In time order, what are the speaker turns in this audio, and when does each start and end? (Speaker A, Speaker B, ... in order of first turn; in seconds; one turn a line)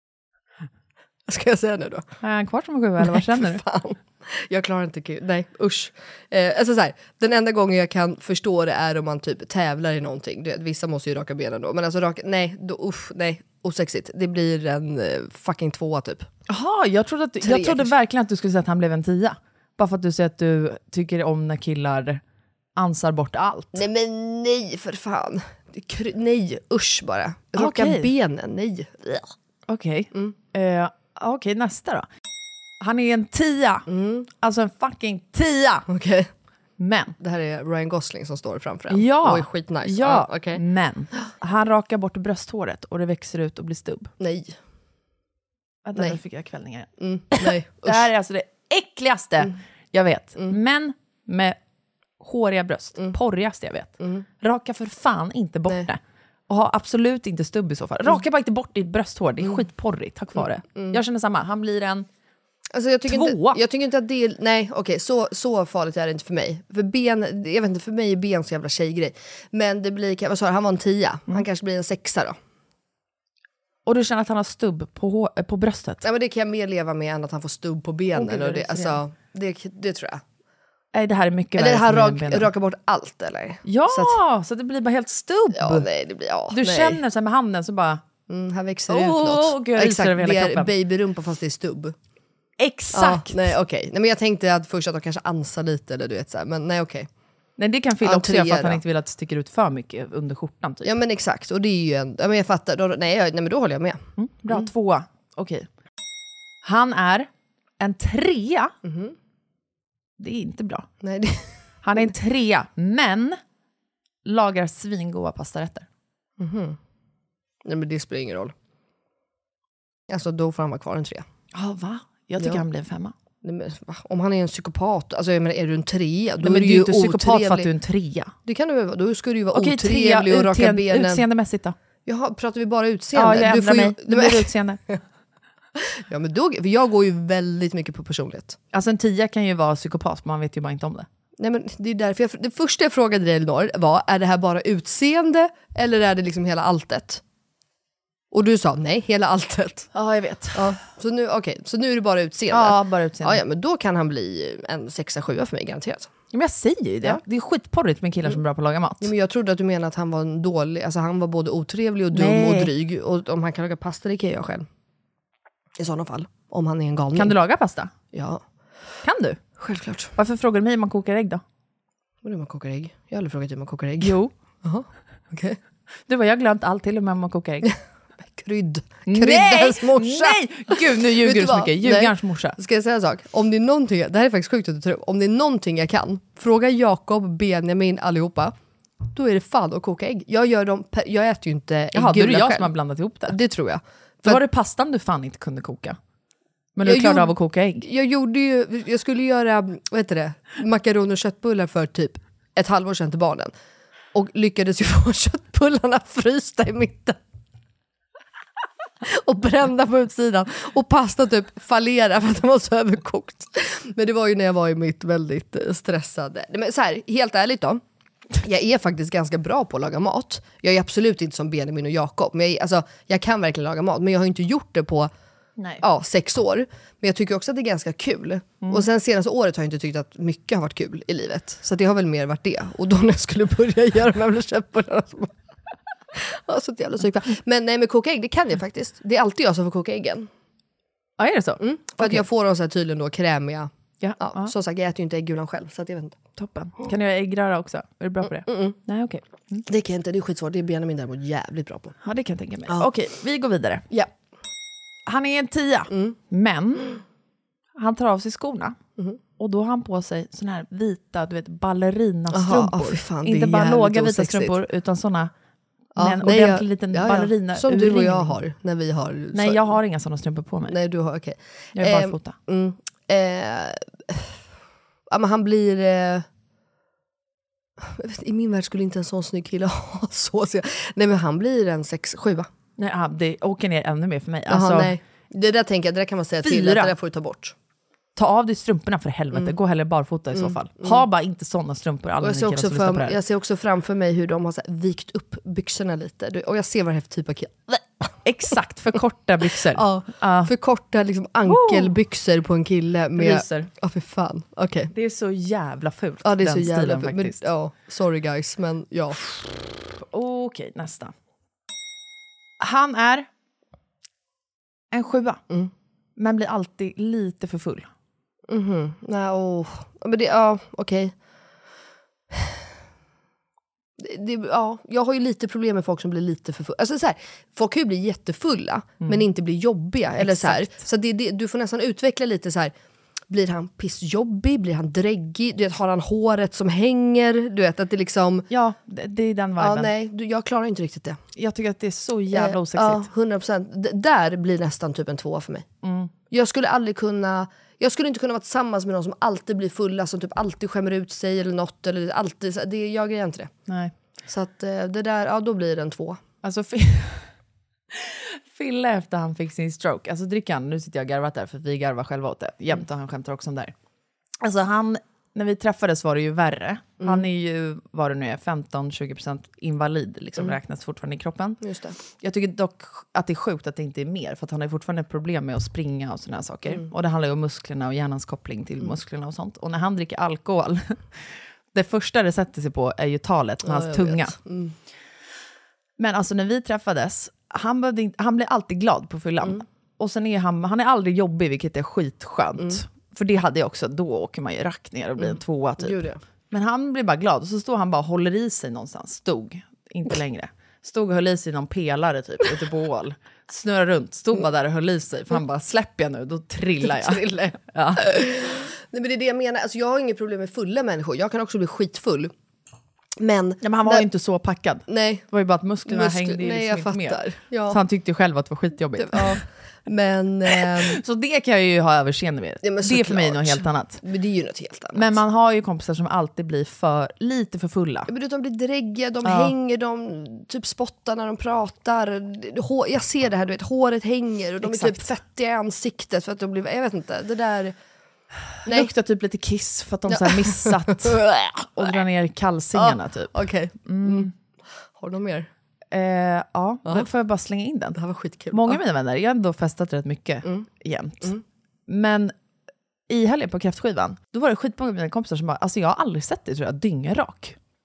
Speaker A: 1.3-2.0
Speaker B: 2.2-3.6
Speaker A: 3.0-16.3
Speaker B: 16.5-22.2
Speaker A: 17.4-17.9
Speaker B: 22.8-23.8
Speaker A: 23.7-29.2
Speaker B: 27.6-28.1
Speaker B: 29.7-32.0
Speaker B: 32.8-33.9
Speaker A: 33.9-34.3
Speaker B: 34.4-35.9
Speaker A: 35.9-36.3
Speaker B: 36.8-37.1
Speaker A: 37.2-40.6
Speaker B: 38.9-44.1
Speaker A: 44.2-44.5
Speaker B: 45.8-51.6
Speaker A: 47.0-48.1
Speaker B: 52.2-62.1
Speaker A: 60.4-61.0
Speaker A: 62.7-72.3
Speaker B: 63.1-63.6
Speaker B: 73.8-76.0
Speaker A: 76.0-80.2
Speaker B: 78.1-79.0
Speaker B: 80.9-82.5
Speaker A: 81.6-84.2
Speaker B: 83.7-85.9
Speaker A: 85.5-87.0
Speaker B: 86.5-88.0
Speaker A: 88.3-91.9
Speaker B: 88.9-90.7
Speaker B: 92.6-93.5
Speaker A: 92.9-97.1
Speaker B: 97.6-100.9
Speaker A: 98.0-98.8
Speaker A: 100.8-104.7
Speaker B: 104.2-105.7
Speaker B: 106.6-107.3
Speaker B: 107.8-108.7
Speaker A: 108.8-109.1
Speaker B: 110.2-110.9
Speaker A: 111.0-111.4
Speaker B: 111.8-113.4
Speaker B: 114.2-115.8
Speaker A: 116.4-116.8
Speaker A: 117.6-118.5
Speaker A: 120.1-121.2
Speaker B: 121.5-123.1
Speaker A: 123.4-127.7
Speaker B: 126.4-128.3
Speaker A: 128.4-131.2
Speaker B: 129.5-131.8
Speaker A: 132.1-135.0
Speaker B: 133.1-134.8
Speaker A: 135.8-138.6
Speaker B: 138.7-141.1
Speaker A: 141.4-147.2
Speaker A: 148.3-149.9
Speaker B: 149.9-150.7
Speaker A: 150.5-156.1
Speaker B: 152.5-153.4
Speaker B: 156.3-159.1
Speaker A: 159.0-164.7
Speaker B: 162.1-162.7
Speaker A: 165.8-167.3
Speaker B: 167.1-167.9
Speaker A: 168.1-168.4
Speaker B: 169.0-169.4
Speaker A: 169.6-170.1
Speaker B: 170.2-171.4
Speaker A: 172.2-175.6
Speaker B: 174.0-174.3
Speaker B: 176.1-177.7
Speaker A: 178.3-188.5
Speaker B: 179.1-182.6
Speaker A: 189.1-192.7
Speaker B: 191.9-193.4
Speaker A: 193.3-194.4
Speaker B: 194.2-196.0
Speaker B: 196.8-197.8
Speaker A: 196.8-203.5
Speaker A: 204.1-207.2
Speaker A: 209.0-217.8
Speaker A: 218.4-225.1
Speaker A: 225.8-235.3
Speaker A: 236.1-240.3
Speaker B: 241.2-242.2
Speaker A: 241.6-243.7
Speaker B: 244.0-244.5
Speaker A: 244.2-246.2
Speaker B: 246.4-249.6
Speaker A: 248.5-248.8
Speaker A: 249.7-251.9
Speaker B: 252.0-253.9
Speaker B: 255.1-257.0
Speaker A: 255.9-256.2
Speaker B: 257.8-258.8
Speaker B: 259.4-265.3
Speaker A: 262.3-264.6
Speaker B: 266.0-268.4
Speaker A: 266.0-269.6
Speaker B: 269.3-270.8
Speaker A: 270.7-274.3
Speaker B: 271.8-272.4
Speaker A: 275.1-276.2
Speaker A: 277.8-282.5
Speaker B: 282.8-284.9
Speaker A: 284.5-287.5
Speaker B: 286.4-286.9
Speaker B: 288.1-293.2
Speaker A: 290.3-291.0
Speaker A: 292.2-298.2
Speaker B: 298.2-300.5
Speaker A: 299.7-304.9
Speaker B: 301.4-301.9
Speaker B: 303.2-303.7
Speaker B: 304.9-307.4
Speaker A: 306.2-309.2
Speaker B: 310.0-311.1
Speaker B: 312.6-313.3
Speaker B: 314.9-315.4
Speaker B: 316.2-317.9
Speaker A: 318.5-321.1
Speaker A: 322.3-322.6
Speaker A: 324.0-332.7
Speaker B: 330.2-330.8
Speaker A: 333.3-338.5
Speaker B: 338.5-339.9
Speaker A: 339.6-341.2
Speaker B: 341.4-343.0
Speaker A: 342.3-345.6
Speaker B: 345.8-346.1
Speaker A: 346.3-353.5
Speaker A: 354.3-356.2
Speaker B: 356.4-357.3
Speaker B: 357.9-363.7
Speaker B: 364.4-371.6
Speaker A: 367.0-367.3
Speaker A: 371.6-372.0
Speaker B: 372.2-384.3
Speaker A: 383.6-384.7
Speaker B: 386.0-396.0
Speaker A: 395.2-396.2
Speaker B: 396.5-408.1
Speaker A: 406.8-412.3
Speaker A: 413.2-414.1
Speaker B: 413.6-419.4
Speaker A: 414.9-415.2
Speaker A: 415.9-417.8
Speaker A: 419.0-421.0
Speaker B: 420.8-424.0
Speaker A: 422.6-425.2
Speaker B: 424.9-428.1
Speaker A: 428.1-437.7
Speaker B: 429.2-429.5
Speaker B: 434.6-435.1
Speaker B: 438.7-441.2
Speaker A: 440.1-442.0
Speaker B: 441.7-443.3
Speaker A: 442.8-444.3
Speaker B: 443.8-444.3
Speaker A: 445.0-445.5
Speaker B: 445.9-448.0
Speaker A: 447.9-448.8
Speaker B: 448.5-451.3
Speaker B: 451.9-452.3
Speaker B: 453.1-457.6